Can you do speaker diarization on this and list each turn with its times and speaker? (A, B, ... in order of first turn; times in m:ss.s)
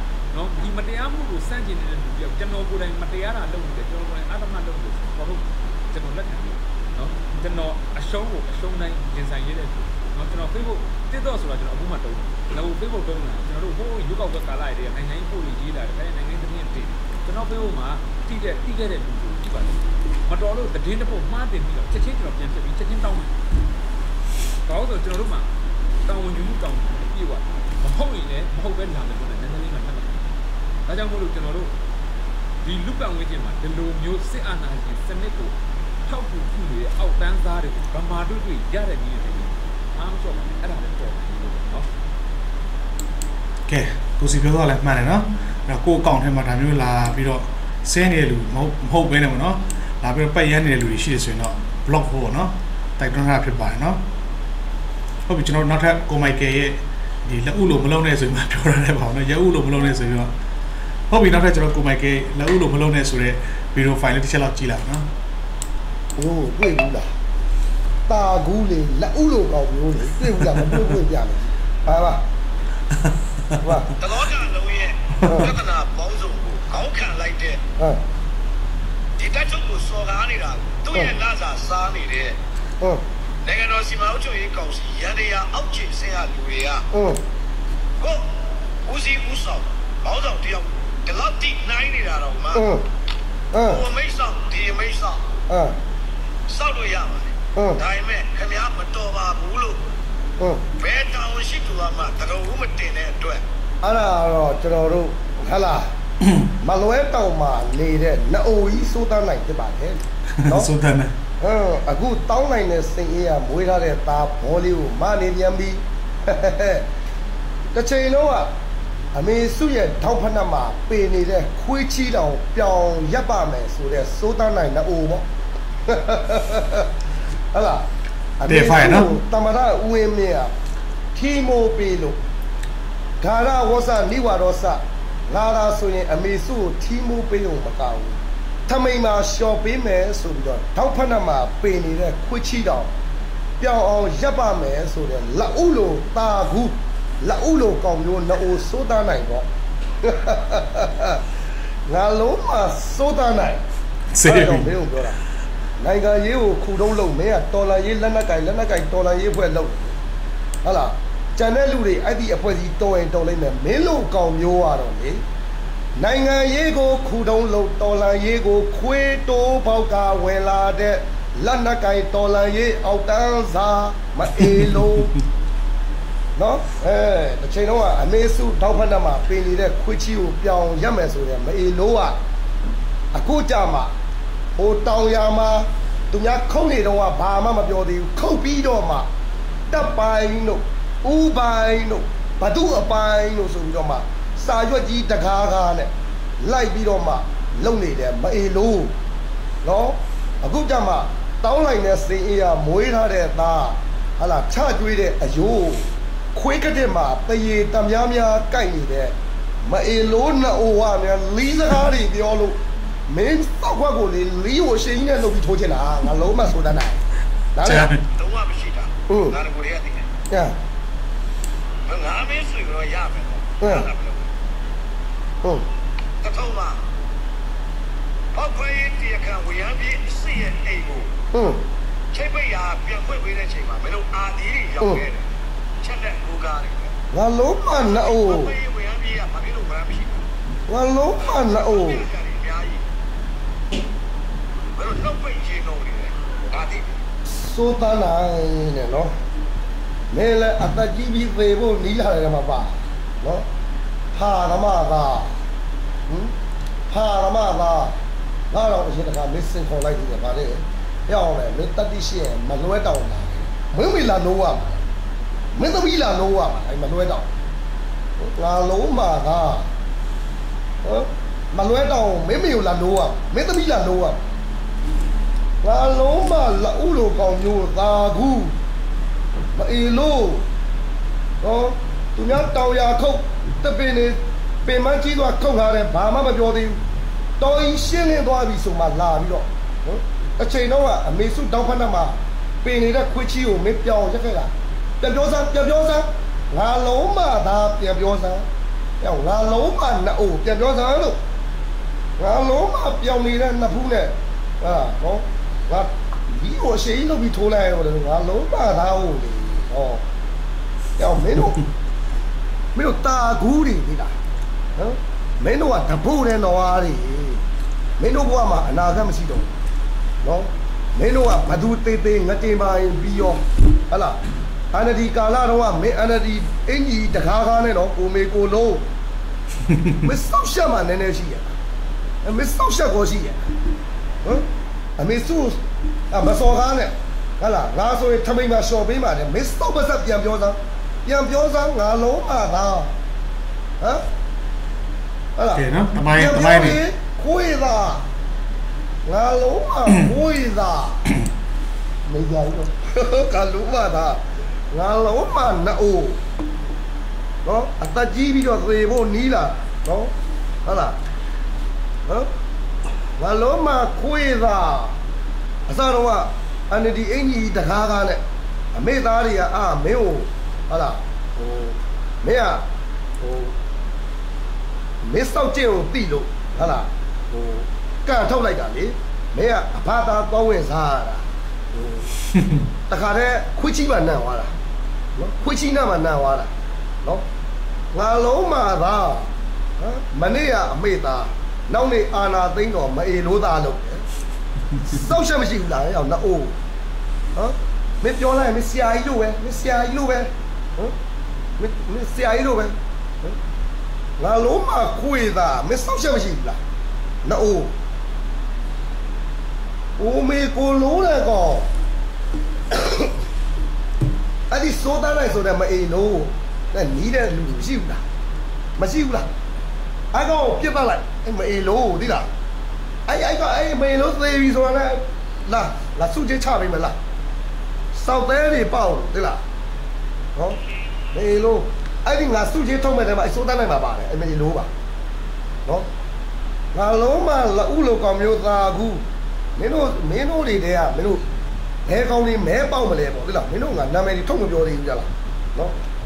0:00.3-0:23.4 A
0:24.6-0:25.5 A
0:26.0-0:30.3 A
0:30.8-0:31.7 A
0:32.6-0:41.9 A
0:43.7-0:54.0 B
0:55.2-1:00.3 B
1:01.1-1:05.1 B
1:06.2-1:07.0 C
1:08.1-1:12.2 C
1:13.6-1:13.9 C
1:14.0-1:17.6 D
1:15.2-1:15.5 C
1:19.2-1:22.4 D
1:23.4-1:26.8 D
1:26.9-1:27.2 C
1:28.0-1:32.6 D
1:32.5-1:32.8 C
1:33.5-1:33.8 C
1:33.6-1:35.2 D
1:35.5-1:35.8 C
1:36.5-1:39.9 D
1:37.6-1:37.8 C
1:40.4-1:40.6 C
1:40.8-1:43.4 D
1:43.8-1:45.9 C
1:46.6-1:50.7 C
1:50.4-1:51.1 B
1:51.4-1:56.8 C
1:57.7-1:58.5 C
1:59.1-2:05.2 C
2:05.9-2:06.9 C
2:07.5-2:07.9 C
2:08.4-2:10.5 C
2:08.5-2:09.1 B
2:11.1-2:12.2 C
2:13.2-2:22.9 C
2:23.6-2:29.5 C
2:30.0-2:31.2 C
2:31.9-2:33.6 C
2:34.1-2:34.7 B
2:34.2-2:35.2 C
2:35.8-2:40.0 C
2:40.6-2:45.2 C
2:46.0-2:55.1 C
2:56.4-3:02.2 C
3:03.1-3:03.9 C
3:04.6-3:09.1 C
3:09.7-3:18.9 C
3:19.6-3:37.0 C
3:37.5-3:37.9 C
3:37.6-3:38.0 B
3:38.1-3:40.1 D
3:39.1-3:39.3 C
3:40.3-3:40.6 C
3:41.8-3:44.3 D
3:43.6-3:43.9 C
3:46.2-3:46.8 D
3:48.3-3:51.1 D
3:51.3-3:51.6 C
3:52.1-3:55.2 D
3:55.8-3:56.9 D
3:57.1-3:58.5 C
3:57.7-4:00.3 D
4:00.7-4:02.0 C
4:01.2-4:02.8 D
4:04.8-4:06.9 D
4:07.3-4:09.1 C
4:10.1-4:13.4 C
4:14.1-4:15.4 C
4:16.1-4:16.3 C
4:16.9-4:18.0 C
4:18.5-4:24.8 C
4:25.5-4:27.3 C
4:28.2-4:29.7 C
4:30.8-4:34.2 C
4:35.6-4:38.6 C
4:39.5-4:40.4 C
4:41.4-4:46.8 C
4:47.4-4:58.4 C
4:59.0-5:01.2 C
5:02.2-5:10.0 C
5:11.0-5:11.6 C
5:12.7-5:14.1 C
5:14.8-5:17.4 C
5:18.0-5:19.5 C
5:20.2-5:24.2 C
5:24.7-5:28.8 C
5:30.0-5:31.5 C
5:32.2-5:33.5 C
5:35.0-5:42.9 C
5:45.4-5:48.0 C
5:45.5-5:46.8 B
5:49.0-5:51.1 C
5:52.1-5:56.2 C
5:57.4-6:00.1 C
6:00.6-6:01.0 C
6:03.2-6:05.0 C
6:05.7-6:08.2 C
6:08.7-6:12.7 C
6:13.2-6:13.5 C
6:15.0-6:22.1 C
6:22.9-6:24.5 C
6:25.2-6:26.5 C
6:27.9-6:34.0 C
6:34.8-6:36.5 C
6:37.3-6:40.9 C
6:41.6-6:43.4 C
6:44.2-6:46.6 C
6:47.2-6:47.7 C
6:50.0-6:51.7 C
6:52.7-6:53.1 C
6:54.5-6:58.0 C
6:58.8-6:59.3 C
7:00.1-7:02.3 C
7:03.1-7:07.0 C
7:07.9-7:09.4 C
7:11.1-7:14.7 C
7:16.7-7:19.0 C
7:19.6-7:21.2 C
7:21.8-7:25.8 C